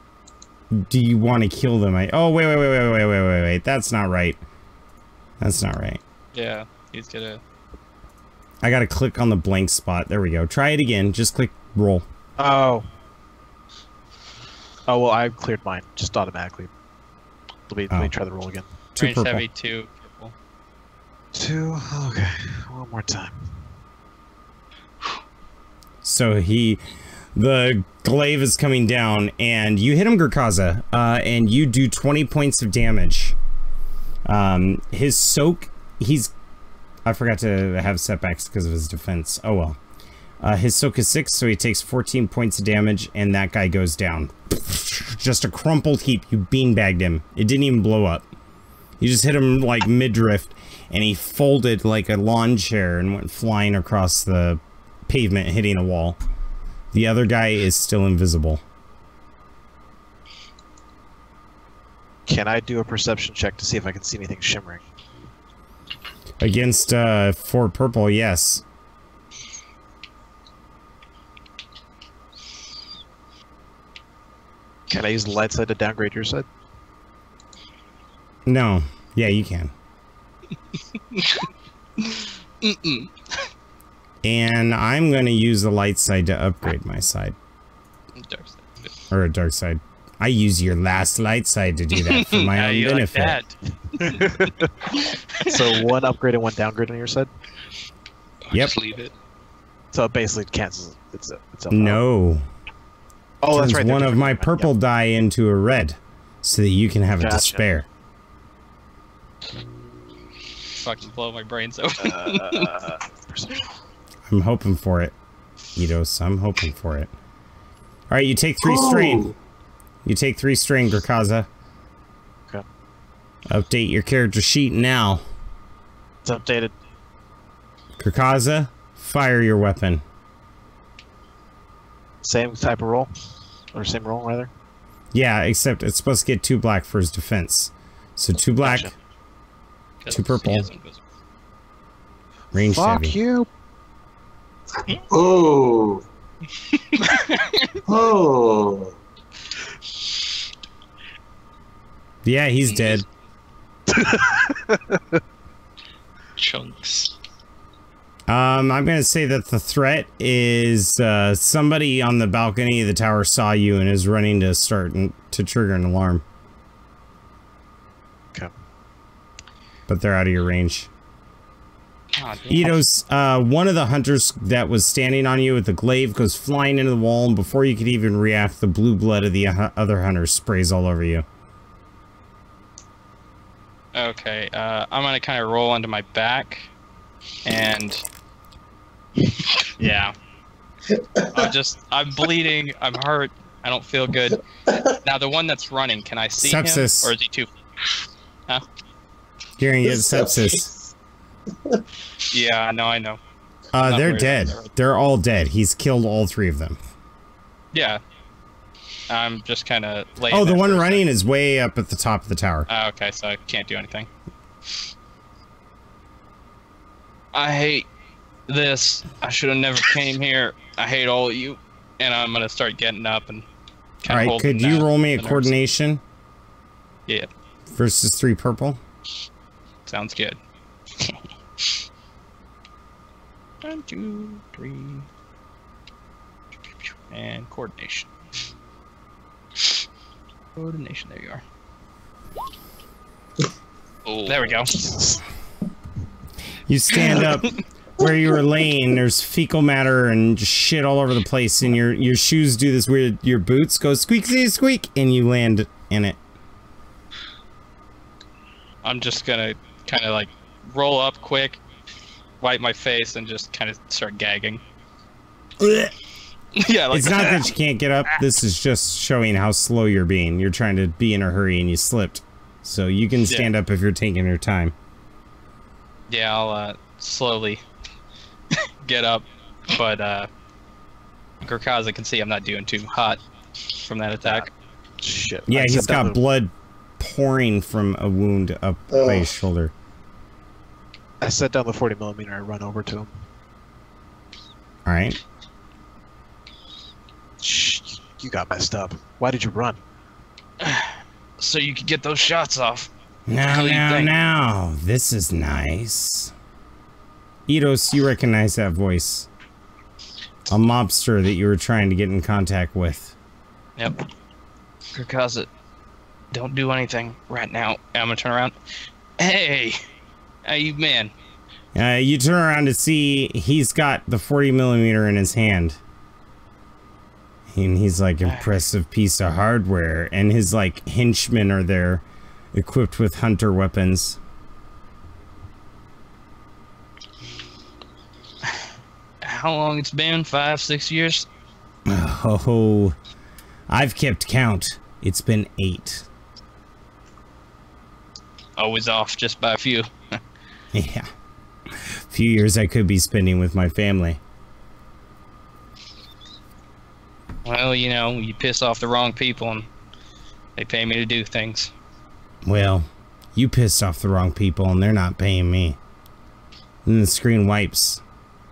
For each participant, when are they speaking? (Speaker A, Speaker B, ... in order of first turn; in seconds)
Speaker A: 0.7-4.4, 5.4-6.0, 8.6-12.1, 18.9-19.4, 26.0-26.8, 27.3-33.4, 34.2-36.3, 37.0-39.8, 40.4-48.2, 49.0-56.2, 56.9-58.6, 66.4-68.6, 78.5-79.7, 84.2-87.3, 89.1-93.4, 101.7-102.5, 103.5-107.8, 114.3-115.1, 115.8-117.1, 118.1-119.3, 120.0-121.5, 123.5-125.2, 128.0-130.0, 135.1-138.9, 140.1-140.7, 142.5-143.2, 152.2-153.0, 158.3-166.2, 169.9-170.9, 172.5-181.2, 196.4-197.1, 199.6-200.7, 203.7-206.8, 210.3-212.7, 224.1-226.0, 227.7-228.8, 246.7-256.2, 265.6-265.9, 266.9-274.7, 285.5-289.7, 294.9-295.2, 303.3-306.3, 307.5-309.3, 310.5-313.1, 321.7-325.8, 327.5-334.2, 341.9-342.9, 343.7-346.1, 350.7-351.1, 351.7-354.2, 362.4-365.8, 366.9-368.0
Speaker B: 6.3-7.4, 19.0-20.3, 81.1-81.4, 82.0-83.1, 88.2-88.9, 91.9-95.6, 110.7-112.9, 140.0-141.0, 147.0-147.8, 172.1-172.8, 183.9-186.7, 187.4-188.0, 189.8-190.1, 191.3-194.4, 195.0-197.5, 202.3-203.2, 203.8-204.7, 207.7-208.0, 209.1-211.0, 212.7-214.1, 217.3-217.9, 218.5-223.4, 224.0-225.6, 229.8-230.4, 233.6-235.1, 237.1-238.1, 240.6-241.4, 244.2-244.7, 247.2-247.5, 258.8-261.6, 262.4-264.6, 266.6-267.4, 273.3-273.5, 276.1-277.6, 278.8-280.3, 281.4-283.2, 283.8-284.5, 300.6-302.9, 303.5-304.1, 314.9-315.5, 316.3-318.5, 319.2-319.8, 320.4-321.1, 339.2-341.3, 348.6-350.2, 357.4-359.7, 360.6-361.7
Speaker C: 12.4-12.9, 14.9-16.7, 17.7-18.6, 21.3-23.5, 62.3-64.8, 74.9-76.5, 94.0-94.7, 95.4-97.3, 99.9-102.0, 103.4-104.7, 107.2-107.6, 112.0-113.6, 126.2-126.7, 132.2-133.1, 133.7-134.5, 138.6-138.9, 142.5-143.5, 153.9-155.2, 244.7-245.2, 285.0-286.2, 291.2-293.1, 297.4-299.8
Speaker D: 98.5-99.1, 156.4-157.1, 244.0-244.5
Speaker E: 118.6-119.3, 144.9-146.0, 147.9-149.0, 190.9-191.5, 194.7-194.9, 199.8-200.8, 288.9-289.3